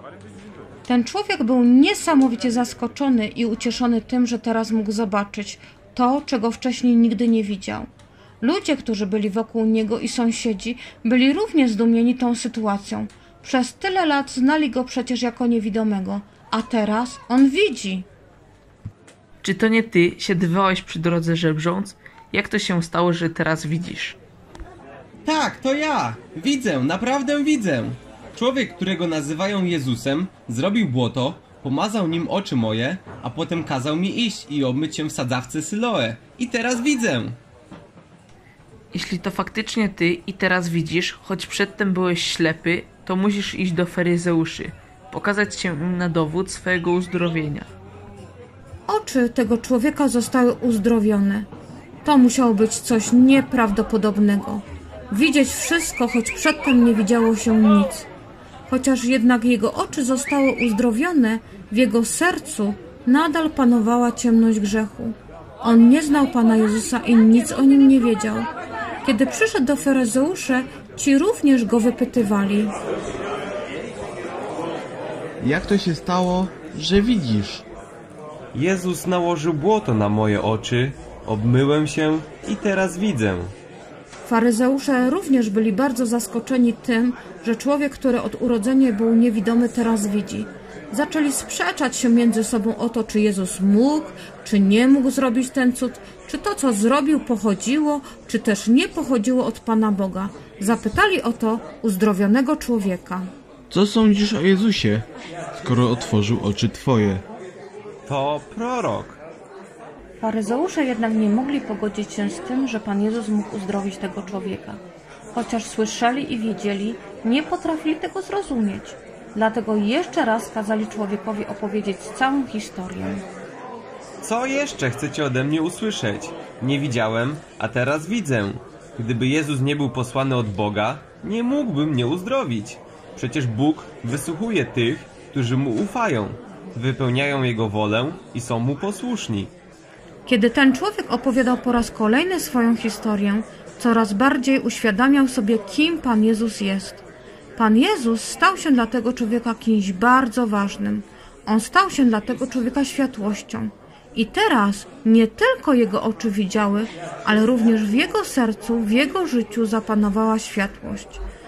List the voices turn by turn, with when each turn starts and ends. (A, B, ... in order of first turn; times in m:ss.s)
0:00.9-0:07.9 A
0:08.4-0:18.1 A
0:19.4-0:24.2 B
0:25.2-0:37.4 C
0:38.9-0:47.7 B
0:48.9-0:51.5 A
0:52.0-0:58.1 A
0:58.7-1:08.5 A
1:09.0-1:12.7 A
1:15.4-1:17.6 D
1:18.5-1:23.5 C
1:24.2-1:43.3 A
1:43.7-1:45.0 D
1:45.6-1:47.2 D
1:48.1-1:49.2 C
1:50.2-1:54.8 A
1:55.3-2:03.2 A
2:04.2-2:19.5 C
2:20.3-2:27.0 A
2:27.6-2:41.2 A